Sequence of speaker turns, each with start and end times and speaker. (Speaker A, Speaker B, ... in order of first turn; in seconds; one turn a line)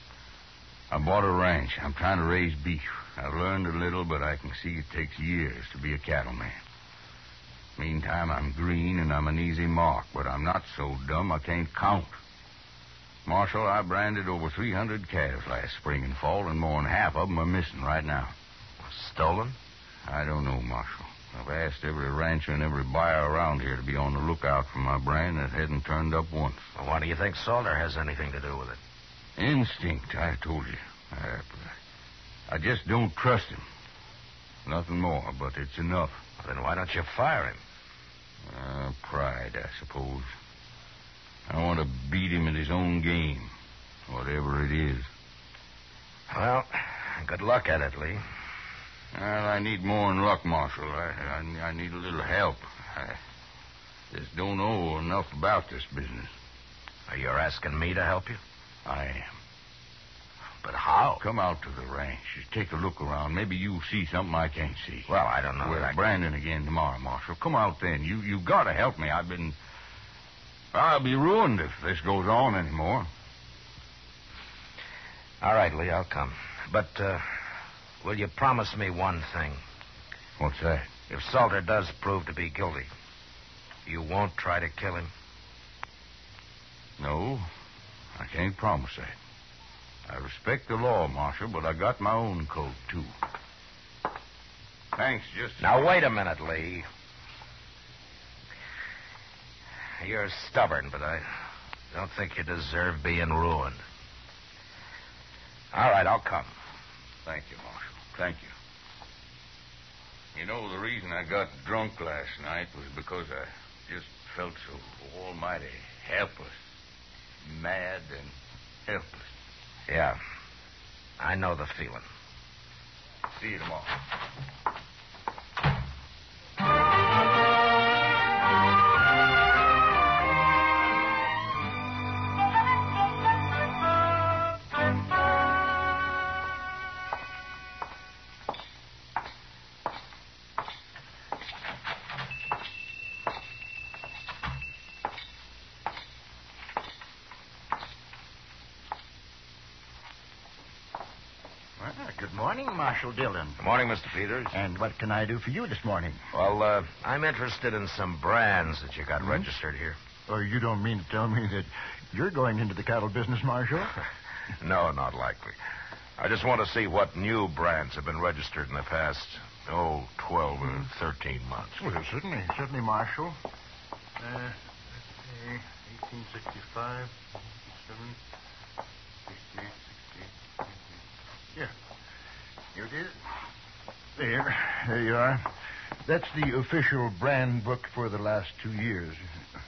Speaker A: 0.9-6.6
Speaker A: 7.8-12.2
Speaker A: 13.2-18.3
Speaker B: 18.8-19.6
Speaker A: 20.0-26.6
Speaker B: 26.7-28.8
Speaker A: 29.4-31.8
Speaker A: 32.5-33.6
Speaker A: 34.6-36.2
Speaker B: 36.4-37.6
Speaker A: 38.5-40.3
Speaker A: 41.5-43.5
Speaker A: 44.1-45.1
Speaker B: 46.3-48.2
Speaker A: 49.1-53.2
Speaker A: 54.1-56.3
Speaker B: 57.1-58.4
Speaker A: 58.8-59.4
Speaker B: 60.6-61.2
Speaker A: 61.2-65.1
Speaker B: 65.1-66.0
Speaker A: 65.6-69.5
Speaker A: 70.7-73.1
Speaker B: 75.4-77.4
Speaker B: 78.0-79.6
Speaker A: 80.4-80.9
Speaker B: 81.1-82.9
Speaker B: 83.8-85.1
Speaker A: 87.0-87.5
Speaker A: 88.2-89.2
Speaker A: 90.1-93.1
Speaker A: 94.9-95.7
Speaker B: 95.6-96.9
Speaker B: 100.0-101.4
Speaker B: 101.9-103.8
Speaker B: 105.7-106.5
Speaker A: 107.2-108.5
Speaker A: 110.3-116.5
Speaker A: 117.4-118.3
Speaker A: 118.9-119.3
Speaker B: 119.9-120.2
Speaker B: 121.2-122.0
Speaker A: 123.4-123.9
Speaker C: 151.8-153.6
Speaker B: 153.6-154.6
Speaker C: 154.5-156.2
Speaker B: 156.3-160.0
Speaker C: 160.3-163.9
Speaker B: 164.6-165.6
Speaker B: 166.2-171.8
Speaker C: 171.8-173.4
Speaker C: 174.2-178.2
Speaker C: 179.3-180.3
Speaker C: 182.7-183.2
Speaker C: 184.2-189.4